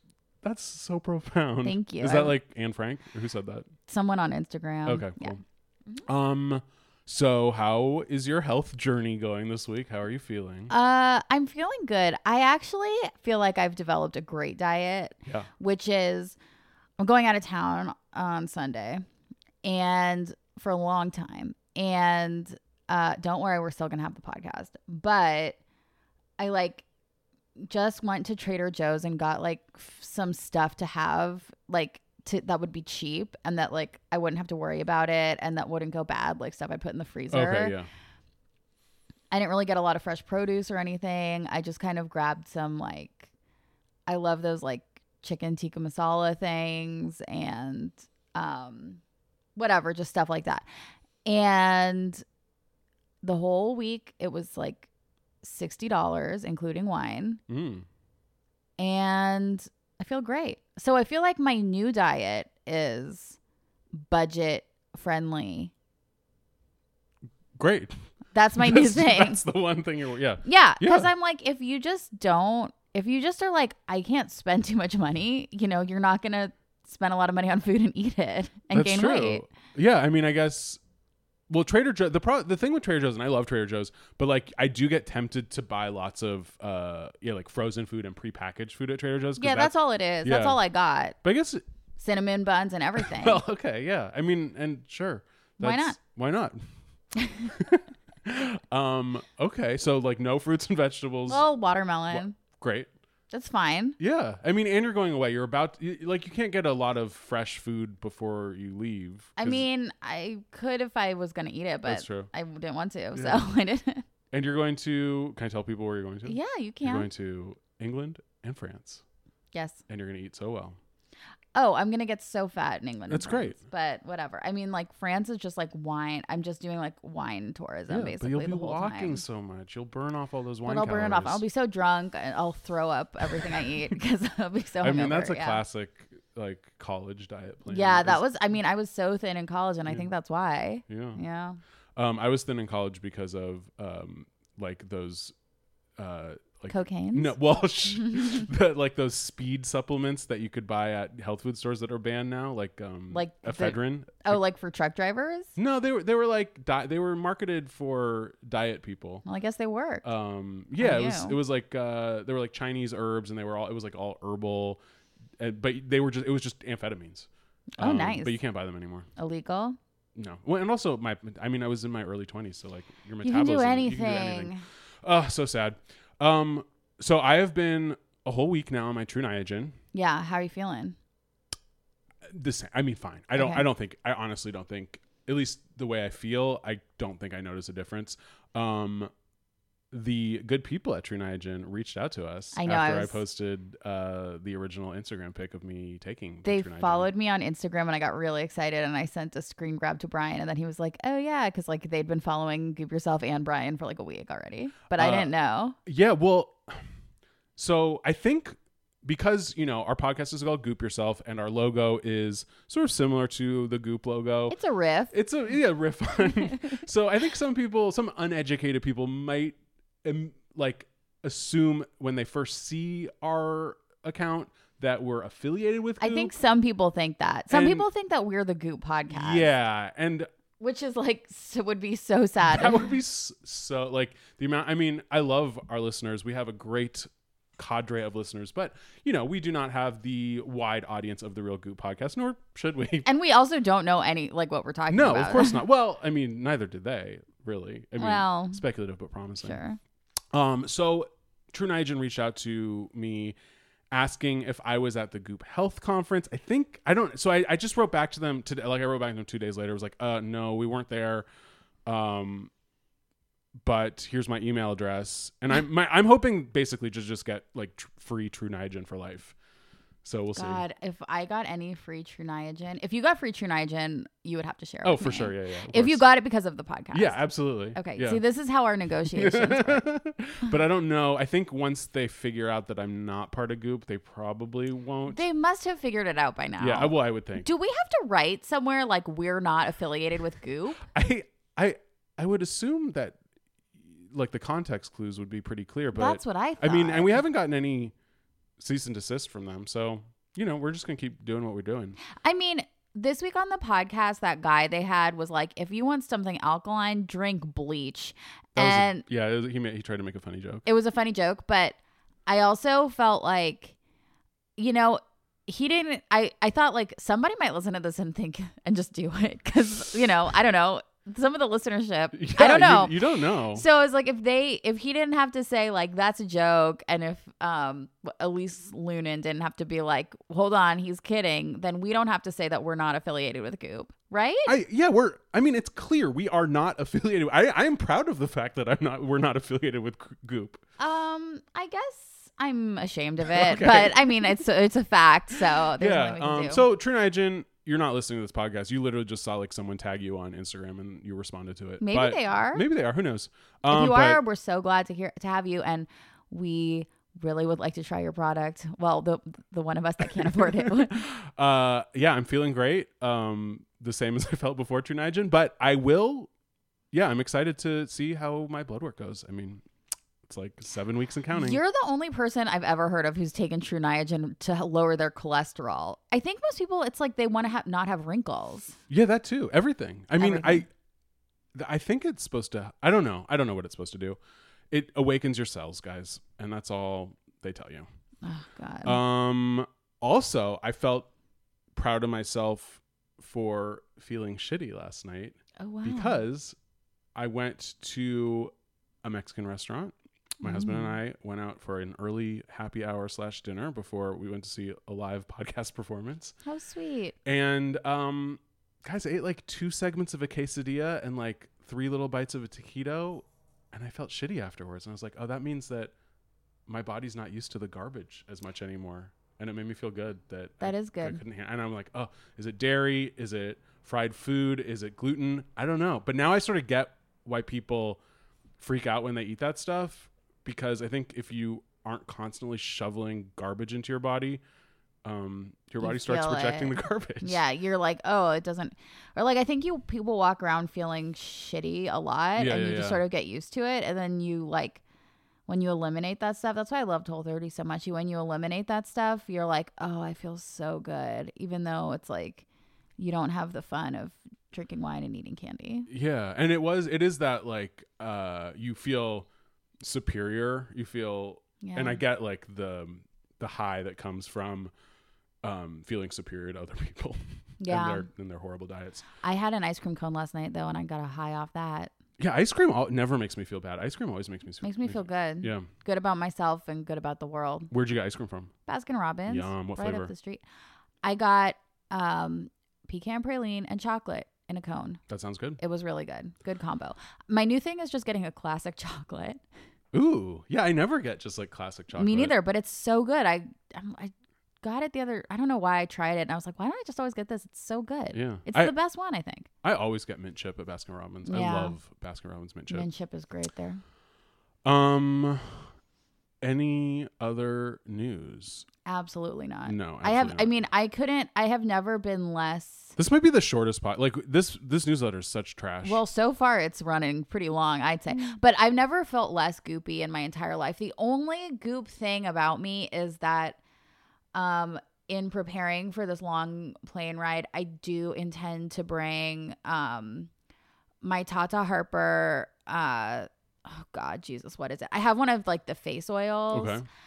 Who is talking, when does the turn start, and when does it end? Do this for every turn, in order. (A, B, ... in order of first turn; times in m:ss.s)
0:00.4-0:03.7 A
0:01.6-0:02.3 B
0:03.9-0:05.4 B
0:04.8-0:05.4 A
0:06.0-0:10.7 A
0:10.7-0:16.4 B
0:17.0-0:19.0 B
0:19.6-0:25.6 B
0:26.4-0:26.8 B
0:27.6-0:37.7 B
0:37.3-0:37.9 A
0:39.3-0:43.3 B
0:44.1-0:49.0 B
0:49.6-0:50.6 B
0:51.2-0:52.2 B
0:53.2-0:54.9 B
0:55.4-0:57.4 B
0:57.5-0:57.8 A
0:58.8-1:03.4 B
1:03.9-1:05.7 B
1:07.6-1:08.0 A
1:08.3-1:09.4 B
1:08.6-1:11.1 A
1:10.4-1:19.4 B
1:18.7-1:20.8 A
1:21.5-1:30.6 A
1:29.4-1:31.2 B
1:31.2-1:31.6 A
1:32.0-1:33.4 B
1:33.0-1:36.6 A
1:35.6-1:36.0 B
1:37.5-1:41.4 A
1:41.3-1:42.4 B
1:42.1-1:42.9 A
1:43.3-1:44.0 B
1:44.0-1:49.6 A
1:49.4-1:54.0 B
1:51.8-1:52.3 A
1:53.1-1:53.4 A
1:54.3-1:59.0 A
1:56.2-1:57.1 B
1:59.5-1:59.8 B
1:59.9-2:00.8 A
2:01.5-2:09.2 B
2:03.1-2:03.6 A
2:07.9-2:11.4 A
2:10.6-2:15.6 B
2:14.8-2:18.2 A
2:17.6-2:21.6 B
2:20.9-2:21.2 A
2:22.0-2:25.3 A
2:26.0-2:34.4 A
2:26.7-2:27.4 B
2:28.0-2:28.4 B
2:33.1-2:35.5 B
2:35.6-2:39.2 A
2:39.2-2:40.1 B
2:40.0-2:44.8 A
2:40.8-2:41.4 B
2:45.4-2:47.3 A
2:47.8-2:48.4 B
2:47.8-2:49.1 A
2:49.2-2:49.8 B
2:50.2-2:54.5 A
2:53.2-2:54.6 B
2:55.0-2:59.8 A
2:59.9-3:01.0 B
3:02.3-3:09.1 A
3:03.3-3:03.6 B
3:09.9-3:17.1 A
3:12.5-3:13.2 B
3:16.4-3:25.8 B
3:25.0-3:25.3 A
3:25.8-3:26.8 A
3:27.6-3:34.6 A
3:34.5-3:35.1 B
3:35.1-3:46.3 A
3:46.0-3:49.5 B
3:47.5-3:47.8 A
3:49.1-3:50.3 A
3:50.6-3:52.9 B
3:52.4-4:03.1 A
4:03.0-4:05.6 B
4:04.9-4:09.6 A
4:08.0-4:08.6 B
4:09.4-4:09.8 B
4:10.3-4:13.3 A
4:13.9-4:21.2 A
4:21.8-4:22.5 A
4:23.6-4:29.3 A
4:30.0-4:30.6 A
4:30.3-4:37.2 B
4:34.8-4:36.0 A
4:36.9-4:38.2 A
4:37.7-4:39.8 B
4:39.1-4:45.2 A
4:45.1-4:50.8 B
4:46.6-4:47.5 A
4:50.9-4:53.2 A
4:54.0-4:57.9 A
4:55.9-4:57.2 B
4:58.6-5:02.0 A
5:02.1-5:09.0 B
5:08.6-5:10.6 A
5:10.6-5:13.7 B
5:14.6-5:23.0 B
5:22.1-5:23.6 A
5:23.5-5:34.6 B
5:34.4-5:40.6 A
5:40.8-5:46.6 B
5:43.3-5:44.3 A
5:45.8-5:54.2 A
5:51.8-5:52.6 B
5:53.6-6:01.0 B
6:00.4-6:06.3 A
6:06.9-6:09.6 A
6:10.2-6:11.6 A
6:11.3-6:18.8 B
6:18.9-6:20.7 A
6:20.2-6:20.6 B
6:21.5-6:24.2 A
6:24.7-6:27.9 A
6:28.2-6:29.0 B
6:28.8-6:31.1 A
6:31.8-6:36.6 A
6:35.6-6:36.2 B
6:37.1-6:38.5 A
6:39.0-6:46.3 A
6:40.4-6:41.0 B
6:46.4-6:47.1 B
6:47.2-6:55.9 A
6:56.7-7:08.0 A
7:00.6-7:01.2 B
7:08.6-7:14.4 A
7:15.0-7:17.4 A
7:15.8-7:24.8 B
7:22.4-7:23.0 A
7:25.5-7:32.4 B
7:33.0-7:35.9 B
7:35.9-7:39.3 A
7:39.8-7:44.7 A
7:41.6-7:42.0 B
7:45.4-7:49.1 A
7:47.6-7:48.1 B
7:49.2-7:51.9 B
7:52.2-7:55.7 A
7:54.6-7:57.7 B
7:57.7-7:58.5 A
7:58.6-8:00.4 B
7:59.3-8:00.1 A
8:01.0-8:05.0 B
8:05.1-8:05.6 A
8:05.6-8:09.4 B
8:09.9-8:12.4 A
8:11.9-8:19.5 B
8:18.1-8:18.7 A
8:19.6-8:22.9 A
8:21.2-8:21.8 B
8:22.7-8:23.8 B
8:24.6-8:25.6 A
8:26.4-8:28.6 A
8:28.8-8:33.0 B
8:29.6-8:30.5 A
8:33.0-8:36.0 A
8:35.8-8:43.6 B
8:44.3-8:50.3 B
8:51.0-8:56.8 B
8:56.5-8:56.8 A